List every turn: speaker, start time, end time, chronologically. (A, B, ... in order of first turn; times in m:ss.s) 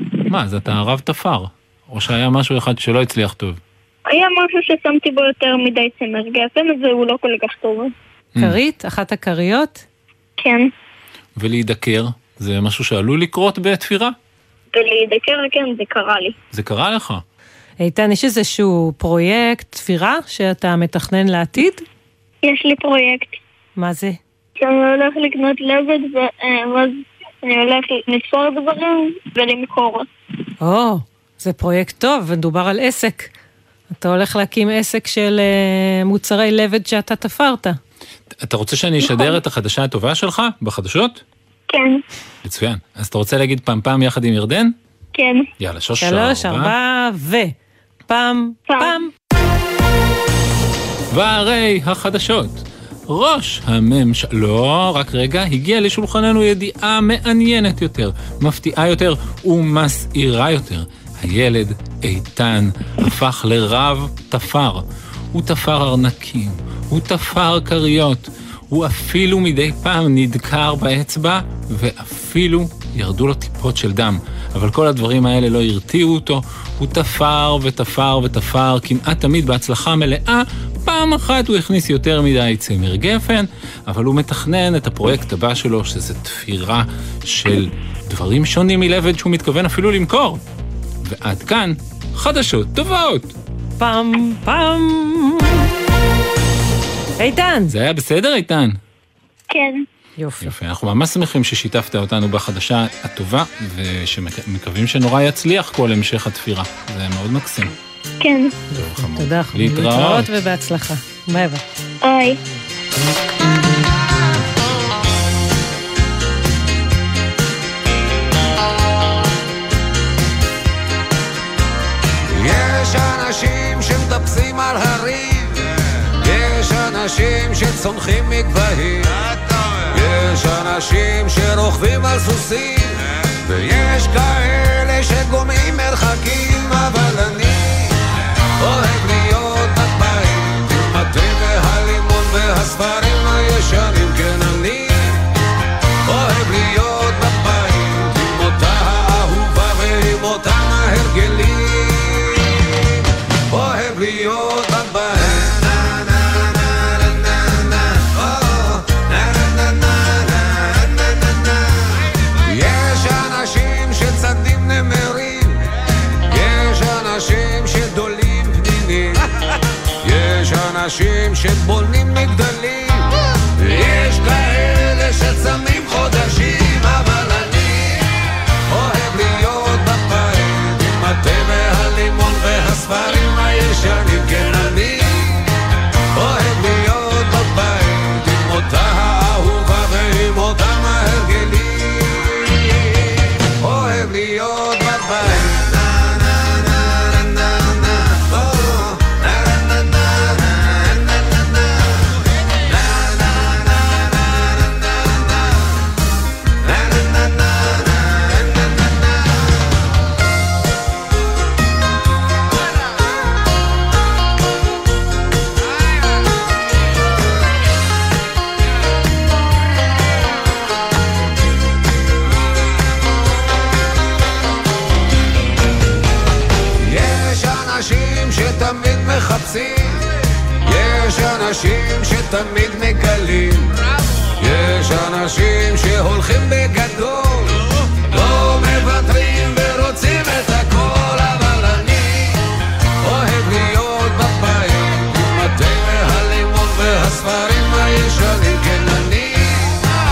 0:00.3-0:03.6 A
0:04.1-0:07.9 B
0:08.4-0:09.8 C
0:10.4-0:10.7 B
0:11.4-0:14.2 A
0:14.7-0:16.4 B
0:16.5-0:17.2 A
0:17.8-0:21.8 C
0:22.4-0:23.4 B
0:23.8-0:24.2 C
0:24.6-0:30.1 B
0:30.6-0:33.3 C
0:33.9-0:37.8 C
0:38.4-0:41.2 A
0:39.0-0:39.4 B
0:41.7-0:42.0 B
0:42.4-0:44.8 A
0:45.2-0:45.4 B
0:45.6-0:46.8 A
0:46.0-0:47.6 C
0:48.1-0:49.1 C
0:48.7-0:49.0 B
0:51.1-1:30.4 A
1:31.0-1:33.4 A
1:33.8-1:35.7 C
1:37.2-1:37.7 C
1:37.7-1:38.8 A
1:39.5-1:39.8 B
1:40.2-1:40.5 C
1:40.4-1:47.7 A
1:48.2-1:48.6 B
1:48.7-1:51.6 C
1:48.8-1:50.3 A
1:52.0-1:52.4 B
2:02.3-2:09.2 D
2:09.9-2:18.0 D
2:18.6-2:25.2 D
2:26.0-2:32.7 D
2:33.5-2:41.6 D
2:42.4-2:45.6 D
2:46.3-2:49.2 D
2:50.0-2:58.1 D
2:58.7-3:05.5 D
3:06.1-3:12.7 D
3:13.6-3:21.4 D
3:22.6-3:25.0 D
3:26.6-3:28.5 D
3:46.8-3:50.0 D
3:50.6-3:53.7 D
3:54.4-4:02.4 D
4:03.0-4:09.8 D